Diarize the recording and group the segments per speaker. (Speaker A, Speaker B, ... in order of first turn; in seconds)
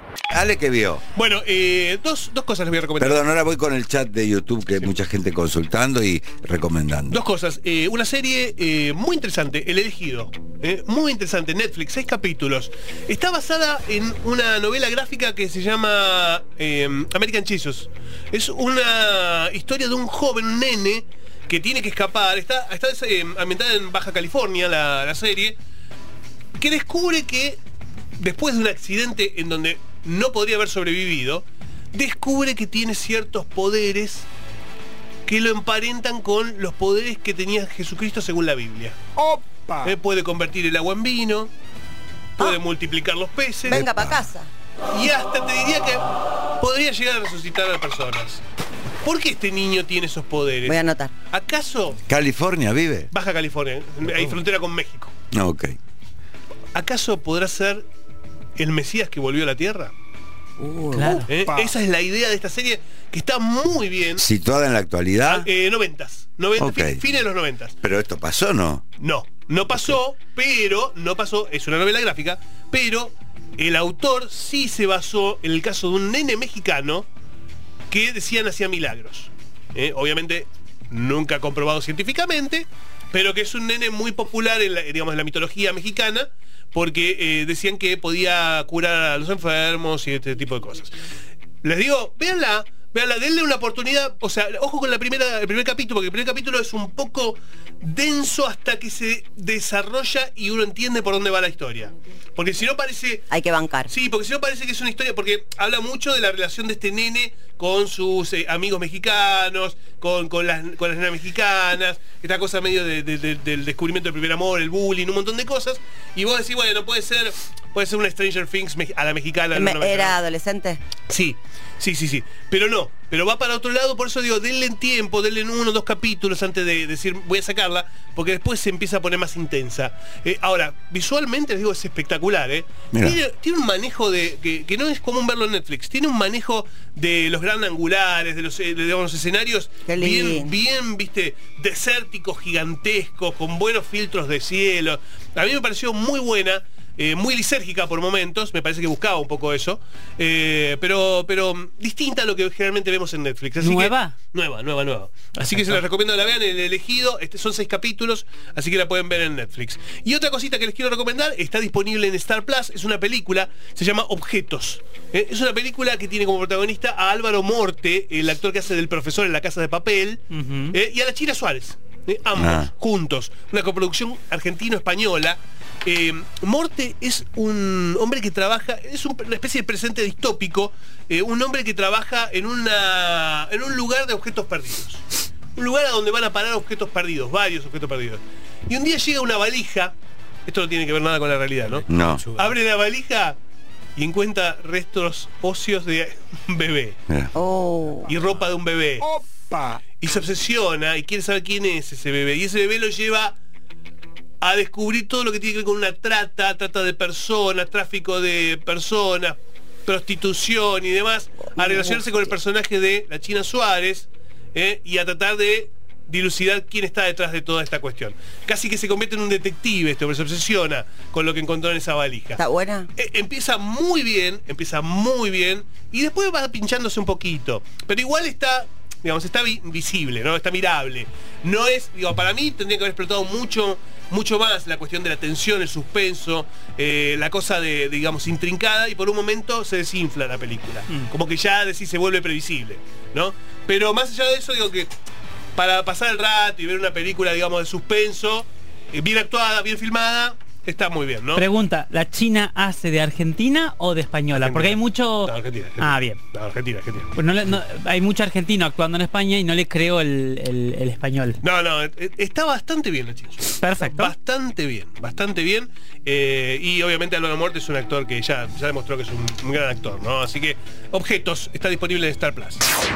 Speaker A: 0.3-1.0, 3.0-7.2, 43.7-44.2, 52.1-53.1, 55.3-55.8, 64.2-65.5, 66.6-67.0, 67.8-68.8, 132.9-133.2, 172.4-172.7, 191.9-192.2
Speaker B: 1.1-3.2, 7.1-25.6, 26.6-27.6, 28.2-34.3, 35.3-39.0, 39.8-41.5, 42.4-43.9, 44.9-46.0, 46.6-48.4, 49.0-50.8, 51.3-52.0, 53.1-55.1, 56.7-57.9, 58.6-59.9, 61.0-64.2, 65.2-67.8, 69.0-77.1, 77.9-91.0, 91.6-103.3, 103.9-120.2, 121.1-189.9, 190.5-193.4, 194.0-197.0, 198.0-199.1, 200.0-203.4, 204.4-222.4, 223.0-244.9, 245.6-251.5, 254.3-257.1, 261.4-272.7
Speaker C: 39.2-39.9, 61.4-61.7, 199.0-199.8
Speaker D: 43.7-44.5, 50.6-51.1, 60.6-61.2, 103.3-103.9, 119.5-120.8, 139.9-140.5, 197.3-198.1, 222.4-222.9
Speaker E: 61.0-61.3, 153.6-154.2, 155.5-155.8, 170.3-170.8, 251.3-256.2, 257.2-261.4, 263.6-264.1